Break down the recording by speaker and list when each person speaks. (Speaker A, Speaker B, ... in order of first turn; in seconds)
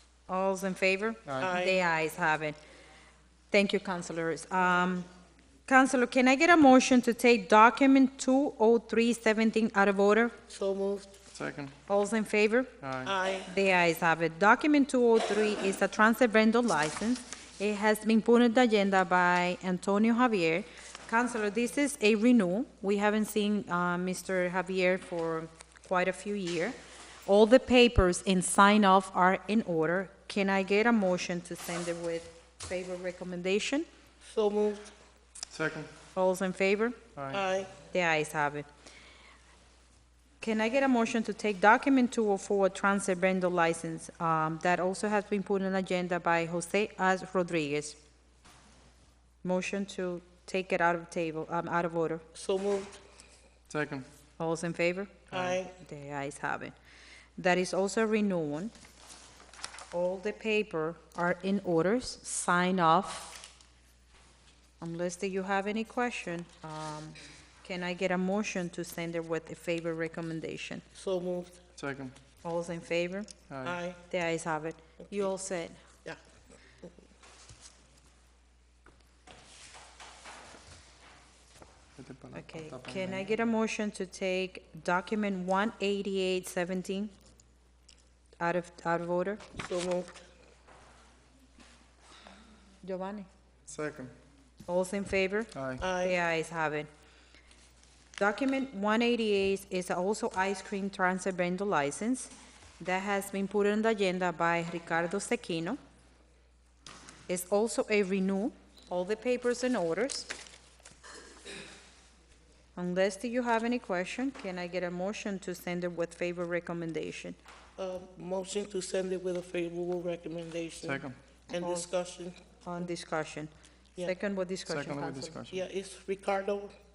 Speaker A: 0.3-2.6, 3.5-5.1, 5.7-10.3, 11.9-12.7, 13.5-33.9, 36.1-37.0, 37.9-38.7, 40.4-48.0, 49.4-52.2, 54.4-56.7, 57.4-58.7, 59.9-63.4, 64.8-70.8, 72.4-73.3, 74.1-75.8, 82.3-87.1, 88.4-89.4, 92.8-93.3, 94.7-95.5, 96.0-96.9, 98.2-105.8, 107.3-110.3, 112.8-117.4, 121.6-121.9, 122.6-123.5, 124.0-125.4
Speaker B: 1.3-1.8, 10.5-11.2, 12.8-13.5, 34.2-34.9, 37.2-37.7, 52.3-53.0, 55.3-55.7, 70.9-72.1, 73.6-74.0, 75.0-75.3, 89.5-90.2, 95.5-96.2, 117.8-122.3, 125.5-126.7
Speaker C: 11.3-11.7, 12.8-13.1, 35.5-35.9, 53.7-54.0, 71.8-72.1, 82.0-83.0, 93.7-94.1, 120.8-121.1, 124.7-125.6